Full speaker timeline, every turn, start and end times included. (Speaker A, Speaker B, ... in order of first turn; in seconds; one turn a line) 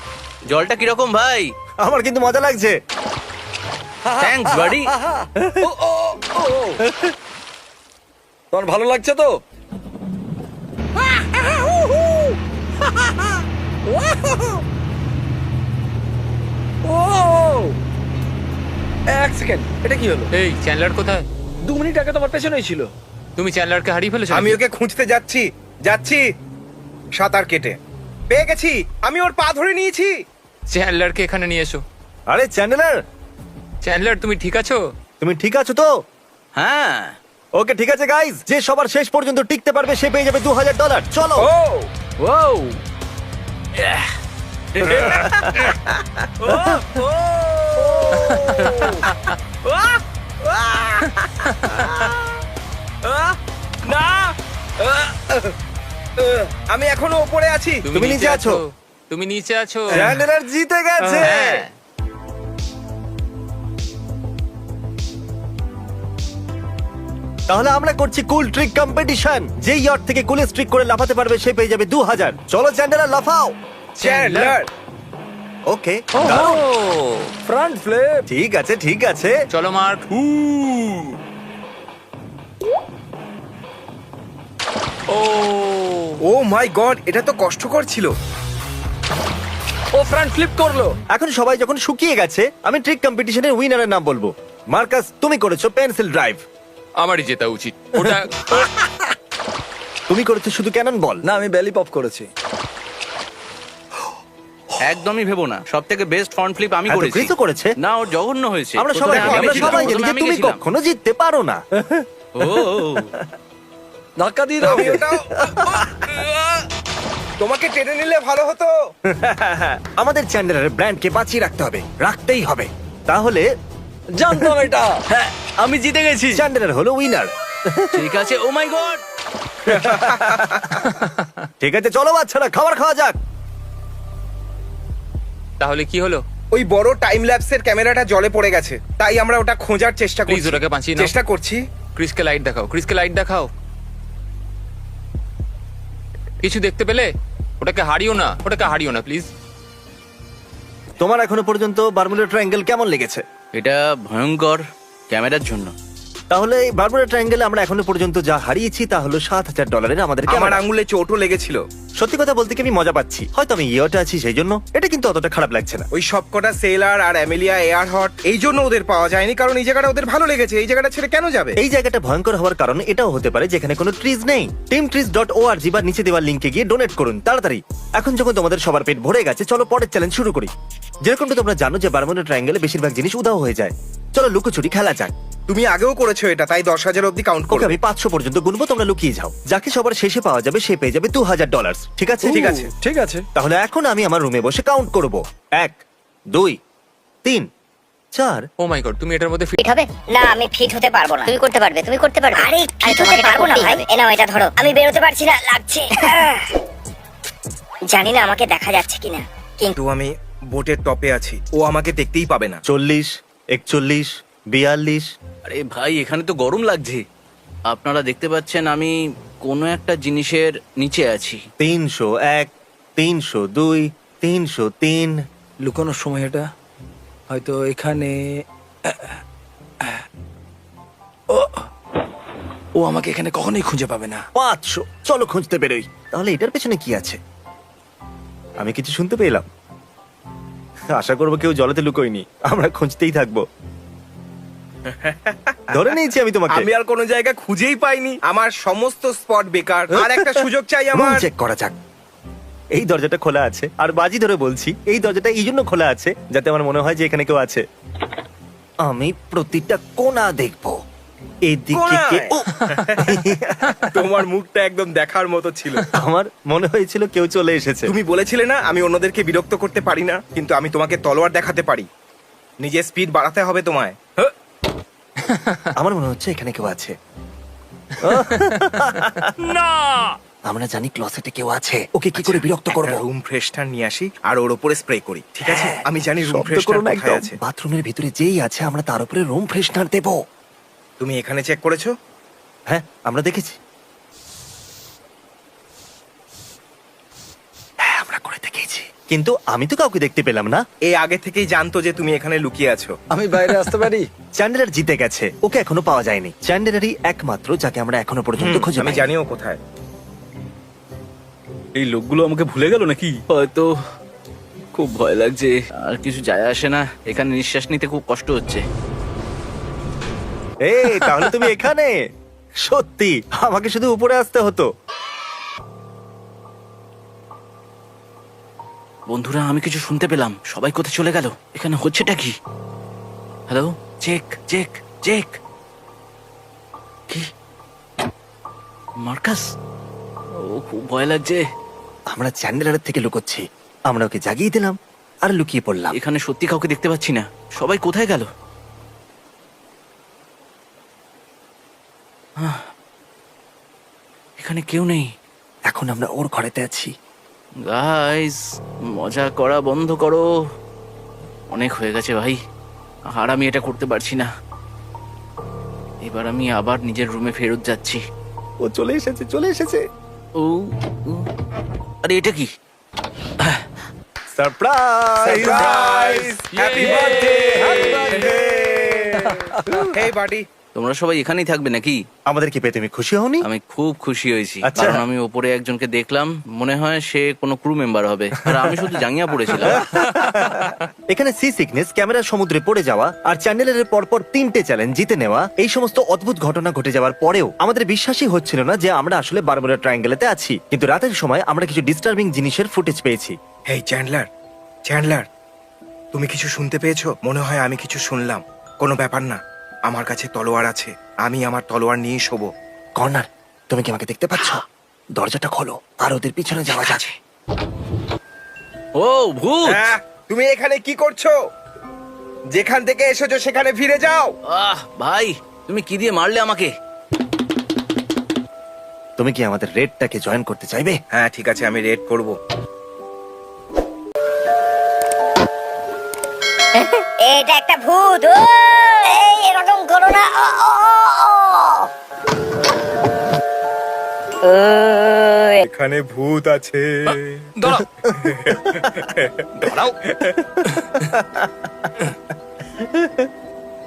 Speaker A: 0.5-1.5
Speaker B: 1.8-2.8
Speaker C: 4.0-6.8
Speaker A: 4.2-4.9
Speaker B: 5.3-5.7
Speaker B: 6.8-7.1
Speaker C: 8.5-9.4
Speaker C: 11.0-14.7
Speaker C: 16.9-17.8
Speaker C: 19.1-20.3
Speaker D: 20.3-21.3
Speaker C: 21.6-22.9
Speaker D: 23.4-24.6
Speaker E: 24.3-26.2
Speaker E: 27.2-27.8
Speaker E: 28.3-30.1
Speaker D: 30.7-31.8
Speaker B: 32.3-32.9
Speaker D: 33.8-34.8
Speaker B: 35.2-35.9
Speaker A: 36.6-37.1
Speaker B: 37.6-41.5
Speaker E: 41.4-41.9
Speaker C: 42.2-42.7
Speaker A: 43.8-44.0
Speaker A: 44.8-45.3
Speaker B: 44.9-45.6
Speaker E: 45.8-46.2
Speaker A: 46.4-47.1
Speaker C: 47.8-49.0
Speaker D: 48.1-49.3
Speaker E: 50.4-52.1
Speaker D: 51.5-51.9
Speaker E: 53.9-55.5
Speaker E: 56.2-58.0
Speaker D: 57.9-60.1
Speaker B: 58.0-58.6
Speaker E: 59.9-60.2
Speaker B: 60.0-61.6
Speaker E: 61.0-61.4
Speaker D: 61.2-61.7
Speaker B: 67.5-73.5
Speaker E: 74.0-74.7
Speaker D: 74.0-74.5
Speaker B: 75.7-76.6
Speaker C: 76.2-76.6
Speaker D: 76.5-77.3
Speaker C: 77.4-78.2
Speaker B: 78.3-79.3
Speaker D: 79.5-80.1
Speaker D: 85.1-86.2
Speaker E: 86.2-88.1
Speaker C: 89.9-91.0
Speaker B: 91.1-96.4
Speaker D: 97.0-98.7
Speaker B: 98.0-99.0
Speaker B: 100.1-101.2
Speaker C: 101.3-102.3
Speaker A: 104.8-110.6
Speaker B: 106.9-107.7
Speaker B: 108.8-112.0
Speaker E: 109.1-109.9
Speaker D: 109.4-109.9
Speaker A: 112.4-113.1
Speaker C: 114.2-115.1
Speaker E: 114.6-116.0
Speaker B: 114.9-115.9
Speaker E: 117.4-118.7
Speaker B: 119.1-123.5
Speaker C: 124.2-125.5
Speaker B: 124.3-124.6
Speaker A: 125.7-126.3
Speaker B: 126.3-127.9
Speaker A: 127.9-129.0
Speaker E: 129.7-130.8
Speaker B: 129.7-130.9
Speaker D: 131.0-131.3
Speaker B: 131.6-133.2
Speaker D: 135.6-136.2
Speaker E: 136.5-141.6
Speaker D: 140.3-141.1
Speaker D: 142.0-143.5
Speaker D: 146.4-147.1
Speaker D: 147.6-149.3
Speaker B: 151.0-153.2
Speaker A: 153.6-155.7
Speaker B: 156.3-160.6
Speaker E: 160.3-161.6
Speaker B: 162.0-165.9
Speaker E: 165.9-171.6
Speaker B: 171.6-180.5
Speaker B: 181.1-185.1
Speaker E: 185.5-187.8
Speaker B: 187.5-192.4
Speaker E: 192.2-192.7
Speaker C: 192.3-193.3
Speaker B: 193.3-195.8
Speaker B: 198.1-198.4
Speaker D: 198.6-199.6
Speaker F: 199.6-206.5
Speaker F: 207.9-209.8
Speaker E: 209.8-212.6
Speaker B: 212.7-215.1
Speaker A: 215.4-217.0
Speaker A: 217.7-221.4
Speaker B: 221.6-225.1
Speaker C: 225.7-226.5
Speaker C: 227.3-228.2
Speaker C: 228.9-229.2
Speaker C: 231.3-231.7
Speaker C: 232.8-234.2
Speaker B: 234.3-237.2
Speaker B: 238.6-239.5
Speaker B: 240.9-243.4
Speaker E: 244.9-245.8
Speaker B: 245.7-246.7
Speaker E: 246.5-251.3
Speaker B: 250.1-250.4
Speaker B: 250.9-251.7
Speaker B: 252.8-257.6
Speaker B: 258.9-260.8
Speaker B: 261.5-262.5
Speaker E: 261.7-263.1
Speaker D: 262.6-262.9
Speaker B: 263.0-263.9
Speaker E: 263.9-265.9
Speaker B: 265.9-267.9
Speaker E: 267.9-271.9
Speaker E: 272.6-274.0
Speaker D: 275.2-275.7
Speaker B: 275.8-276.9
Speaker B: 278.0-279.3
Speaker D: 278.1-278.3
Speaker D: 279.5-280.2
Speaker B: 280.5-283.0
Speaker E: 282.2-287.4
Speaker B: 285.4-290.2
Speaker E: 291.0-291.9
Speaker B: 292.7-293.6
Speaker B: 297.8-300.6
Speaker E: 300.9-302.9
Speaker C: 303.1-304.1
Speaker B: 304.4-309.1
Speaker E: 308.4-309.6
Speaker A: 311.8-313.7
Speaker A: 314.8-318.6
Speaker B: 320.7-321.9
Speaker B: 322.7-324.7
Speaker A: 329.1-332.3
Speaker A: 333.5-335.4
Speaker A: 339.0-339.5
Speaker A: 340.5-341.4
Speaker B: 342.1-345.9
Speaker A: 346.0-348.3
Speaker A: 354.4-355.1
Speaker B: 355.7-356.9
Speaker A: 357.7-358.4
Speaker A: 359.0-360.3
Speaker A: 361.5-362.4
Speaker A: 363.1-364.3
Speaker A: 366.1-368.0
Speaker B: 368.7-369.8
Speaker A: 370.4-371.3
Speaker A: 372.1-372.5
Speaker B: 374.3-375.7
Speaker E: 375.2-377.5
Speaker D: 375.4-378.5
Speaker B: 376.8-380.0
Speaker E: 379.9-380.5
Speaker A: 380.8-382.0
Speaker B: 382.3-383.4
Speaker A: 383.4-389.8
Speaker B: 384.6-385.0
Speaker B: 388.6-388.8
Speaker B: 389.6-403.3
Speaker D: 389.7-390.8
Speaker E: 403.7-404.3
Speaker E: 404.9-405.3
Speaker E: 406.1-412.5
Speaker B: 413.0-414.6
Speaker B: 415.2-417.1
Speaker A: 419.0-419.9
Speaker E: 419.6-421.3
Speaker E: 422.5-424.3
Speaker A: 424.5-426.7
Speaker B: 429.2-431.0
Speaker E: 431.1-432.4
Speaker F: 436.8-441.9
Speaker F: 444.4-445.6
Speaker E: 445.6-447.5
Speaker D: 447.6-447.9
Speaker B: 447.7-449.1
Speaker E: 448.1-450.4
Speaker D: 449.6-450.0
Speaker B: 450.5-451.9
Speaker D: 450.7-451.1
Speaker B: 452.8-453.3